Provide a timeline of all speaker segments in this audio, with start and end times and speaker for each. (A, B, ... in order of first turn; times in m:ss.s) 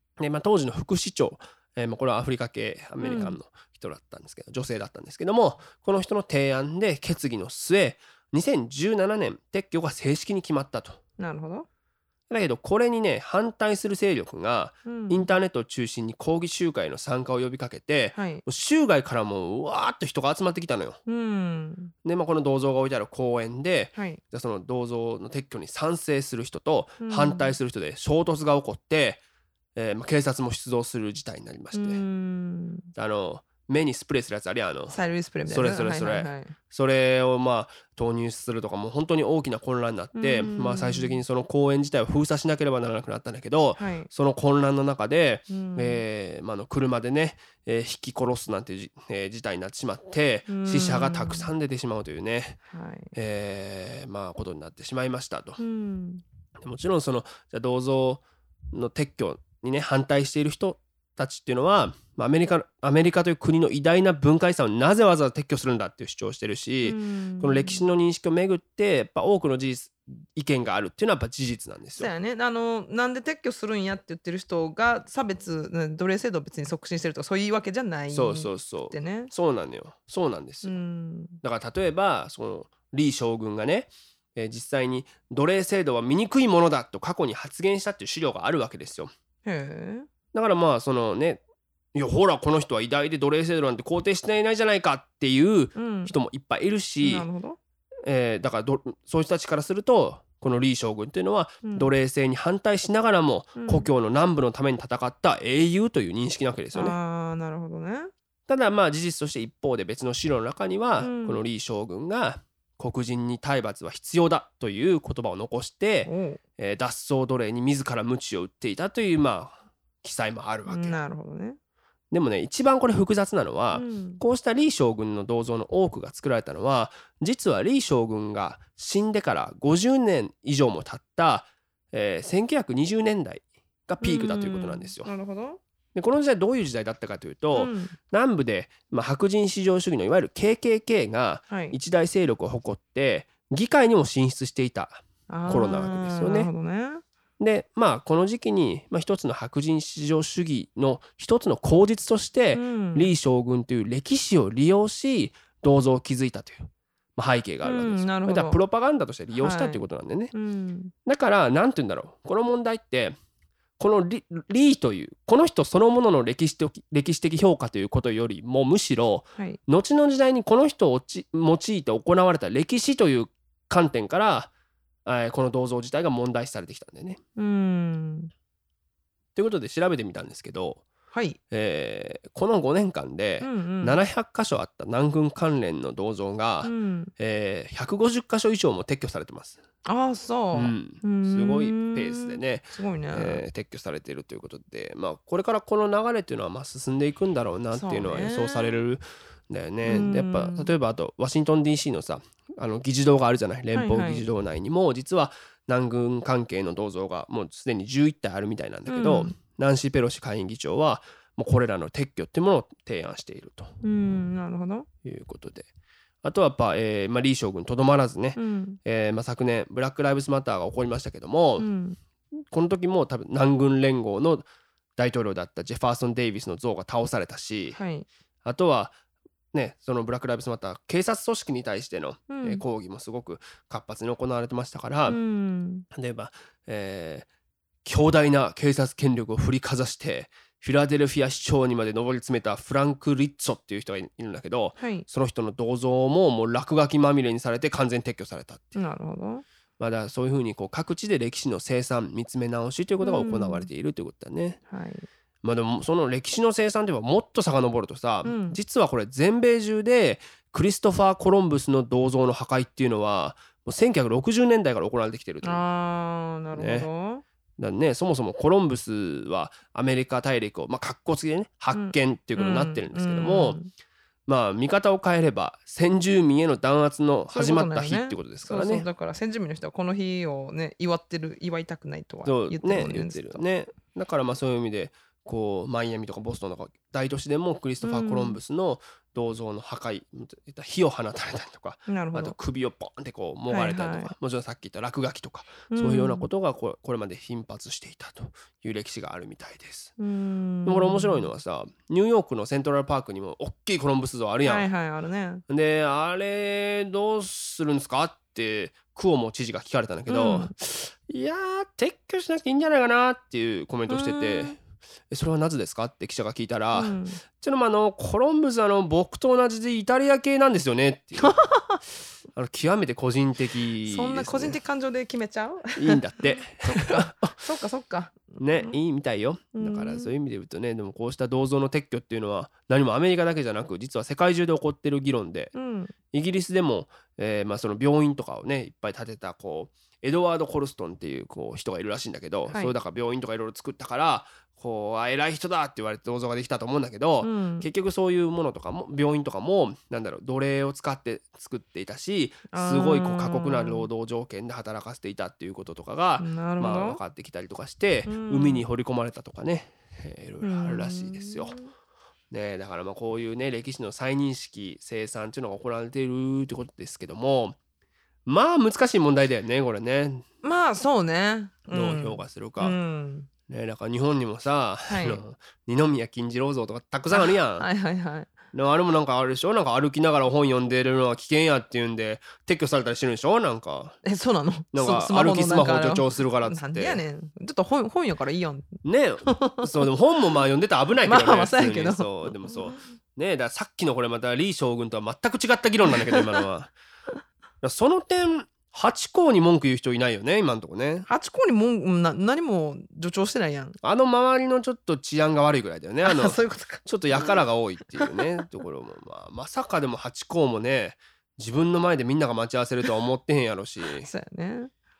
0:00.2-0:11.0 A
0:03.0-0:03.4 B
0:11.2-0:11.7 B
0:12.3-0:21.0 A
0:14.9-0:15.3 B
0:18.2-0:18.4 B
0:21.1-0:21.9 B
0:22.0-0:29.2 A
0:24.0-0:24.2 B
0:27.0-0:27.5 B
0:29.8-0:32.0 A
0:31.7-0:32.9 B
0:32.9-0:52.6 A
0:34.9-0:36.5 B
0:40.2-0:41.2 B
0:43.8-0:44.1 B
0:45.5-0:46.0 B
0:50.5-0:51.5 B
0:52.7-0:53.1 B
0:53.1-0:55.6 A
0:55.6-0:56.2 B
0:56.6-1:12.1 A
1:06.8-1:07.8 B
1:12.0-1:19.3 B
1:18.1-1:20.8 A
1:20.6-1:21.4 B
1:21.4-1:29.1 A
1:29.4-1:30.1 B
1:30.3-1:31.4 A
1:32.0-1:37.3 A
1:35.8-1:36.1 B
1:37.0-1:37.6 B
1:38.0-1:47.0 A
1:41.6-1:41.9 B
1:43.6-1:43.9 B
1:46.7-1:48.1 B
1:48.5-2:01.0 A
1:51.0-1:51.4 B
1:56.1-1:56.4 B
2:00.7-2:01.6 B
2:02.1-2:15.1 A
2:03.7-2:04.2 B
2:14.0-2:15.6 B
2:16.0-2:26.5 A
2:17.6-2:18.0 B
2:21.5-2:21.8 B
2:25.3-2:27.0 B
2:27.4-2:40.3 A
2:32.6-2:33.1 B
2:37.6-2:38.6 B
2:39.3-2:39.8 B
2:40.3-2:40.9 B
2:41.0-2:43.2 A
2:43.8-2:54.5 A
2:55.1-2:57.2 A
2:57.4-2:58.3 B
2:59.4-3:00.8 A
3:01.1-3:01.4 B
3:01.5-3:09.6 A
3:03.4-3:04.0 B
3:06.6-3:07.1 B
3:09.8-3:13.4 B
3:10.5-3:33.8 A
3:17.7-3:18.8 B
3:19.8-3:20.7 B
3:23.7-3:24.3 B
3:28.9-3:29.4 B
3:33.8-3:34.9 B
3:35.0-3:35.7 A
3:36.2-3:41.7 A
3:38.4-3:38.8 B
3:41.6-3:42.0 B
3:42.5-3:44.5 A
3:45.0-3:47.8 A
3:47.7-3:48.1 B
3:48.4-3:49.0 A
3:49.5-3:55.2 A
3:52.3-3:52.6 B
3:55.1-3:55.8 B
3:55.9-3:57.3 A
3:57.8-4:08.7 A
4:04.8-4:05.1 B
4:08.8-4:09.4 B
4:09.8-4:14.6 A
4:13.0-4:13.7 B
4:14.7-4:15.0 B
4:15.4-4:25.6 A
4:18.2-4:18.6 B
4:25.4-4:27.2 B
4:26.6-4:26.9 A
4:27.6-4:33.6 A
4:31.7-4:33.7 B
4:34.3-4:38.9 A
4:37.3-4:43.4 B
4:42.2-4:59.9 A
4:47.8-4:48.4 B
4:51.9-4:52.4 B
4:53.5-4:54.1 B
4:55.7-4:56.2 B
5:00.0-5:01.3 B
5:00.6-5:04.7 A
5:04.4-5:05.4 B
5:05.5-5:14.6 A
5:10.1-5:10.5 B
5:13.9-5:14.6 B
5:15.1-5:21.4 A
5:16.8-5:17.2 B
5:21.3-5:21.7 B
5:22.3-5:24.6 A
5:23.9-5:28.7 B
5:25.8-5:27.5 A
5:28.4-5:35.5 A
5:29.6-5:30.1 B
5:35.6-5:35.9 B
5:36.1-6:01.6 A
5:47.2-5:47.7 B
5:52.5-5:53.9 B
5:56.2-5:57.0 B
5:58.1-5:58.6 B
6:00.4-6:01.7 B
6:02.3-6:07.6 A
6:08.3-6:10.2 A
6:10.4-6:13.3 B
6:11.7-6:12.8 A
6:13.5-6:17.7 A
6:14.9-6:15.2 B
6:17.1-6:18.3 B
6:18.5-6:24.0 A
6:24.0-6:29.7 B
6:24.7-6:27.0 A
6:28.8-6:36.7 A
6:31.0-6:32.7 B
6:36.1-6:36.4 B
6:37.6-6:41.1 A
6:41.1-6:43.8 B
6:43.8-6:54.1 A
6:46.0-6:47.4 B
6:48.0-6:48.2 B
6:53.9-6:54.7 B